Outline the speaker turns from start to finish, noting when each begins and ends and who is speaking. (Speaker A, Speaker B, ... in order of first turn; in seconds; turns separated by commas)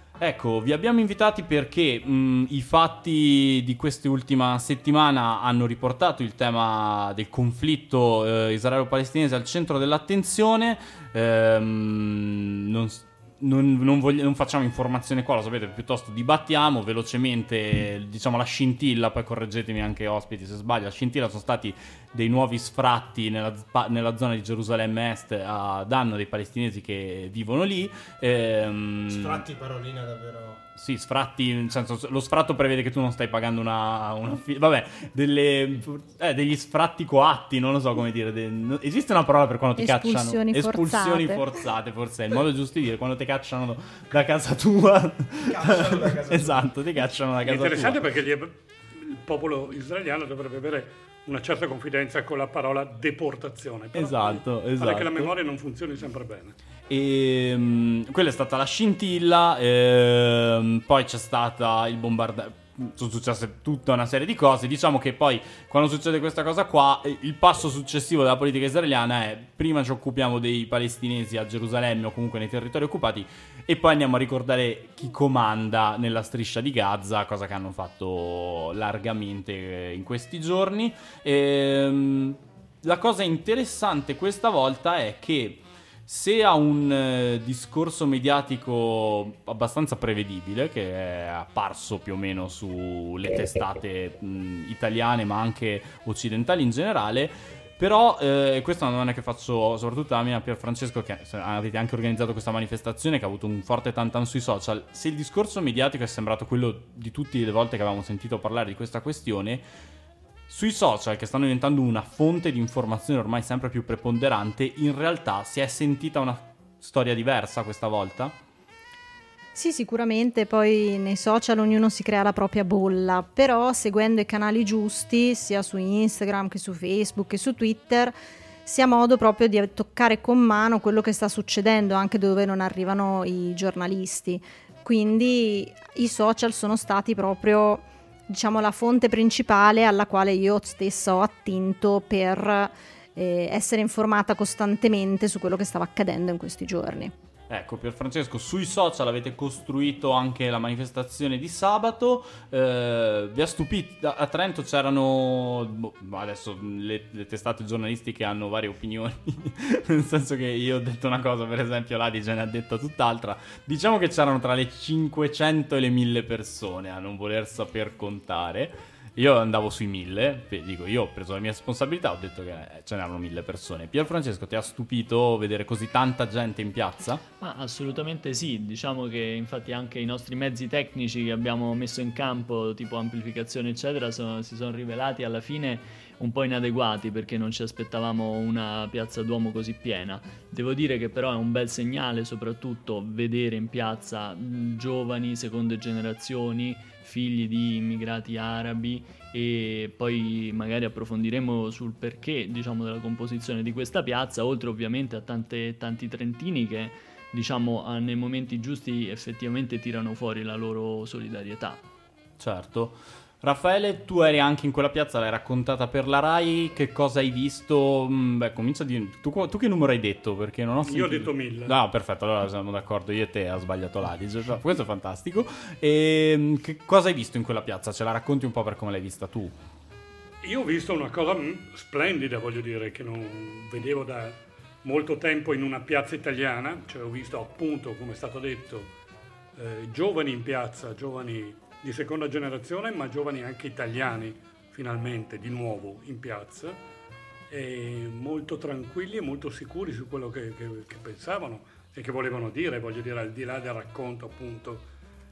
Speaker A: 0.2-29.4, Speaker B: 29.1-30.6, Speaker A: 30.8-48.1, Speaker C: 39.8-41.4, Speaker B: 45.4-46.7, Speaker D: 47.4-56.5, Speaker A: 53.9-55.3, Speaker A: 56.9-109.6, Speaker A: 110.5-118.3, Speaker C: 119.5-147.1, Speaker A: 147.5-177.2, Speaker E: 177.4-211.8, Speaker A: 212.4-229.6, Speaker D: 220.8-221.7, Speaker D: 230.4-238.9, Speaker D: 239.6-246.8, Speaker D: 247.5-254.9